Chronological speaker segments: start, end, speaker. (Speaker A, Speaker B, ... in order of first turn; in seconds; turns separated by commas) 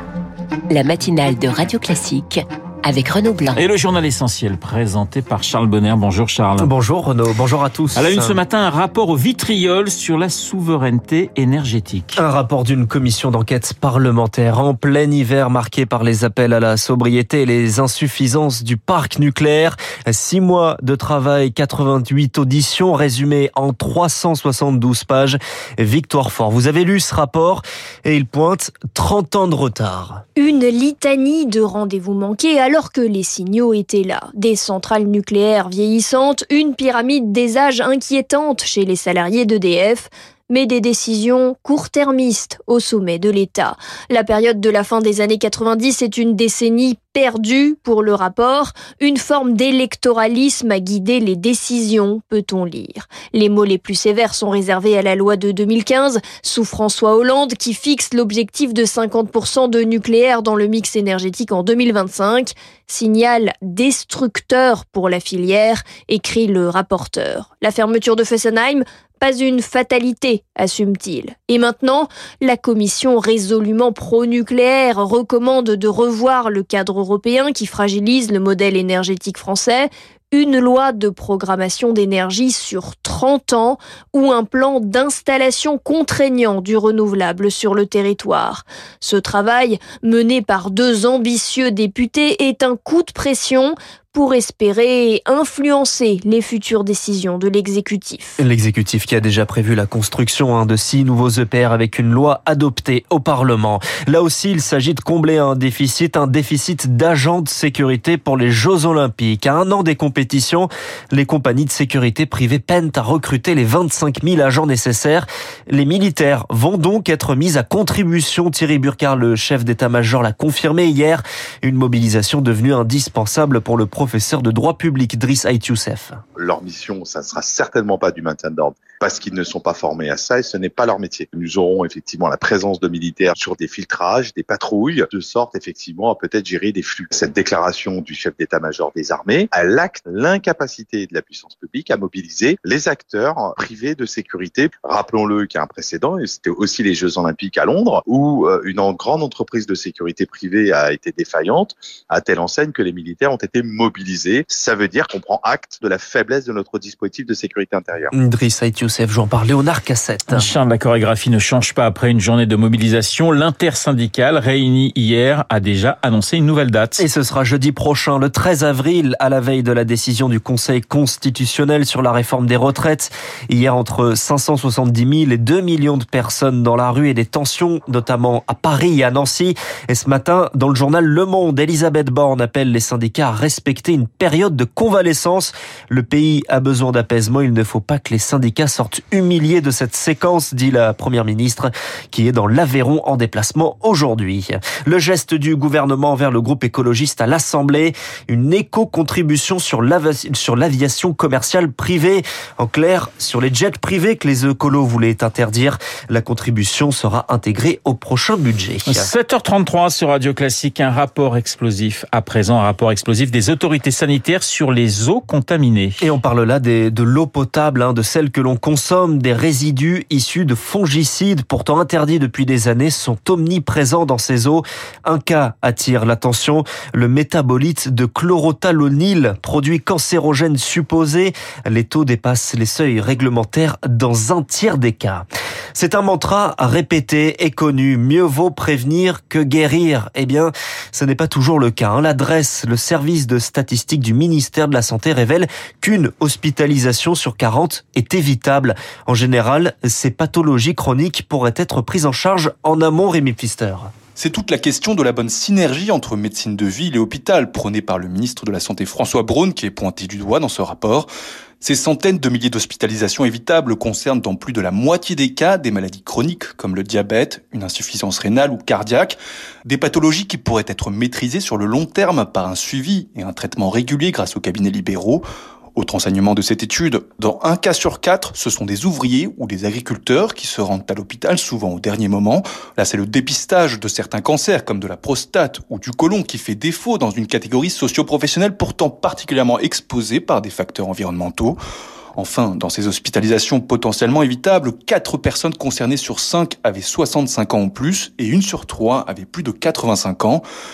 Speaker A: 0.7-3.6, Speaker B: 3.5-6.7, Speaker C: 6.6-8.4, Speaker B: 8.0-12.2, Speaker C: 12.2-30.2, Speaker D: 30.4-98.4, Speaker C: 98.4-126.2, Speaker E: 126.4-158.1, Speaker C: 158.1-160.6, Speaker B: 160.3-167.0, Speaker C: 167.0-209.1, Speaker B: 208.9-216.1, Speaker C: 216.0-253.9, Speaker F: 254.2-261.1, Speaker F: 261.6-275.2, Speaker F: 275.8-291.6, Speaker F: 292.2-300.4